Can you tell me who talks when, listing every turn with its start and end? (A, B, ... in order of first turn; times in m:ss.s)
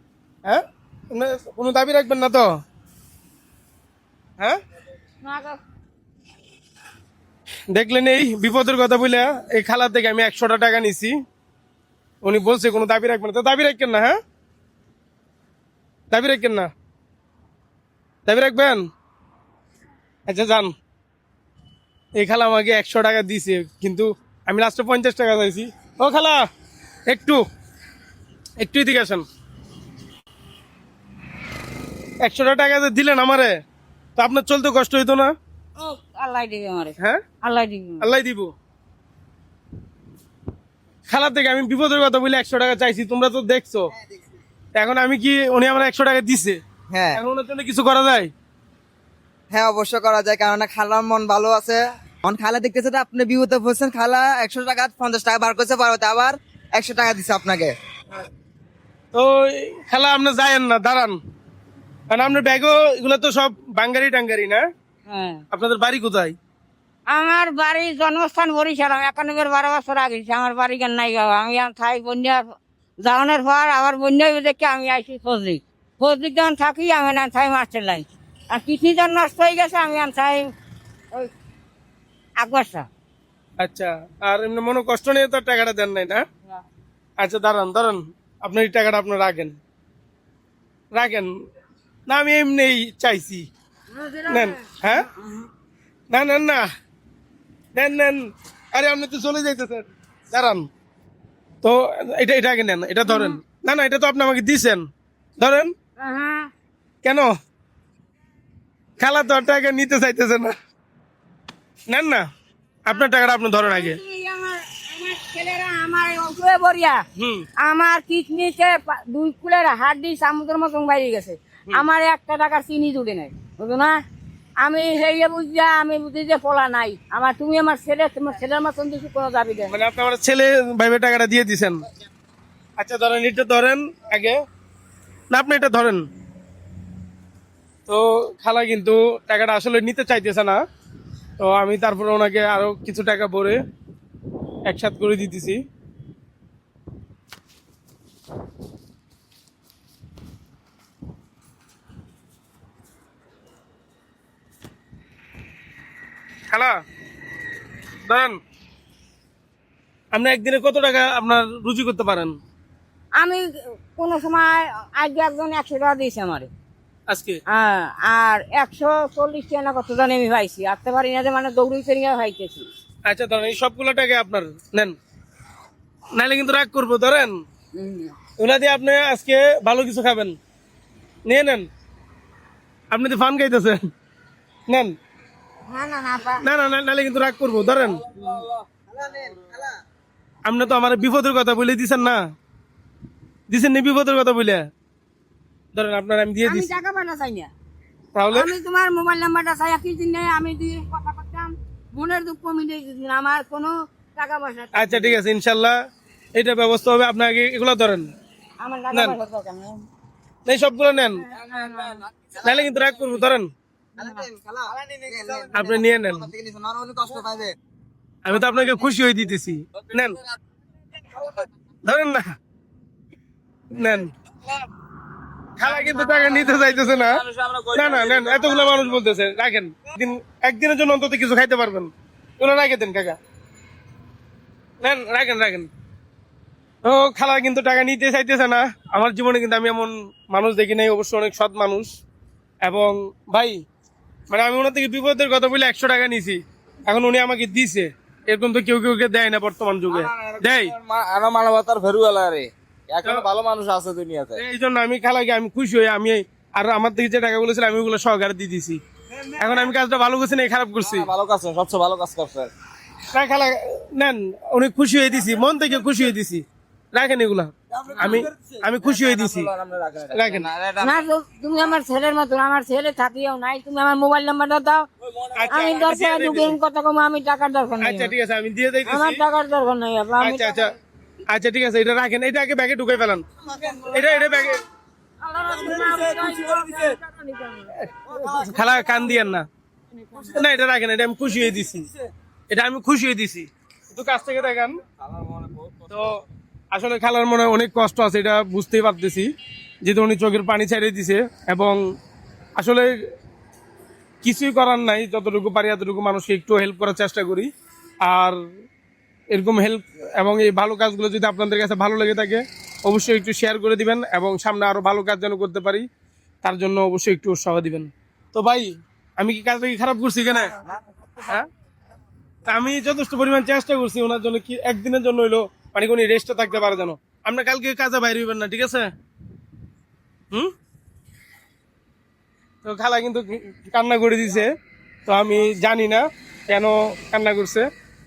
0:00.4-0:02.5 A
0:05.2-0:05.6 B
0:07.7-0:11.2 A
0:12.2-0:14.2 A
0:16.1-0:16.7 A
0:18.2-0:18.8 A
0:20.3-0:20.7 A
0:22.2-0:26.4 A
0:27.1-0:27.4 A
0:28.6-0:29.2 A
0:32.2-0:33.5 A
0:34.2-0:35.3 A
0:35.8-0:38.1 B
0:38.0-0:38.5 A
0:41.1-0:43.8 A
0:44.8-0:46.6 A
0:46.9-0:47.2 C
0:47.1-0:48.3 A
0:49.5-0:57.7 C
0:59.1-1:01.2 A
1:02.1-1:04.6 A
1:05.1-1:05.4 B
1:05.5-1:06.4 A
1:07.1-1:20.5 B
1:22.4-1:22.9 B
1:23.6-1:26.2 A
1:27.2-1:29.6 A
1:30.9-1:31.3 A
1:32.1-1:33.4 A
1:33.9-1:35.5 B
1:34.3-1:35.0 A
1:36.1-1:36.6 A
1:37.7-1:40.6 A
1:41.6-1:44.8 A
1:43.0-1:43.4 B
1:45.4-1:45.7 A
1:46.0-1:46.5 B
1:47.0-1:47.3 A
1:49.0-1:50.5 A
1:51.9-1:52.2 A
1:52.9-1:54.0 A
1:52.9-1:57.0 B
1:57.2-1:57.5 A
1:57.6-2:04.0 B
2:04.6-2:09.7 B
2:09.7-2:11.8 A
2:12.8-2:14.4 A
2:15.3-2:16.0 A
2:17.9-2:20.6 A
2:21.4-2:23.6 A
2:24.7-2:25.6 A
2:36.5-2:36.8 A
2:38.0-2:38.4 A
2:40.1-2:42.3 A
2:43.2-2:46.5 B
2:47.1-2:47.4 A
2:47.5-2:52.7 B
2:53.1-2:54.9 A
2:56.1-2:57.4 A
2:57.7-2:58.1 B
2:58.4-3:00.3 A
3:01.3-3:01.6 A
3:02.9-3:03.8 A
3:04.7-3:04.9 A
3:05.7-3:06.4 B
3:06.4-3:08.0 A
3:08.2-3:08.5 B
3:08.9-3:09.6 C
3:10.4-3:12.2 A
3:13.5-3:14.7 A
3:15.7-3:16.7 A
3:16.4-3:17.5 B
3:18.1-3:18.5 A
3:18.3-3:25.2 B
3:24.7-3:25.7 A
3:26.3-3:28.1 A
3:28.6-3:29.8 B
3:30.4-3:31.2 A
3:31.2-3:32.0 B
3:32.4-3:33.5 A
3:34.0-3:37.6 C
3:35.5-3:36.3 A
3:38.2-3:40.2 A
3:41.8-3:42.3 A
3:43.7-3:44.1 A
3:45.6-3:47.2 A
3:45.6-3:48.9 D
3:47.7-3:53.2 A
3:54.8-3:55.7 A
3:56.8-4:01.9 A
4:02.6-4:03.6 A
4:04.3-4:10.7 A
4:09.9-4:14.4 D
4:14.4-4:18.8 A
4:19.3-4:21.1 A
4:20.8-4:22.5 D
4:23.1-4:29.5 A
4:27.7-4:31.1 D
4:30.1-4:30.5 A
4:30.8-4:34.9 B
4:35.3-4:36.6 A
4:35.5-4:38.1 B
4:37.8-4:39.2 A
4:38.9-4:40.7 B
4:40.2-4:40.7 A
4:41.3-4:44.6 A
4:45.2-4:48.5 B
4:45.8-4:46.8 D
4:47.7-4:49.5 A
4:50.2-4:51.9 A
4:52.5-4:54.7 A
4:55.0-4:55.9 D
4:55.9-4:56.2 A
4:56.7-4:59.3 A
4:59.8-5:01.8 A
5:02.6-5:02.9 A
5:04.2-5:07.5 A
5:08.0-5:08.4 A
5:09.3-5:15.8 A
5:16.4-5:20.5 A
5:21.2-5:21.5 A
5:22.5-5:28.9 A
5:32.6-5:34.5 A
5:35.1-5:37.7 A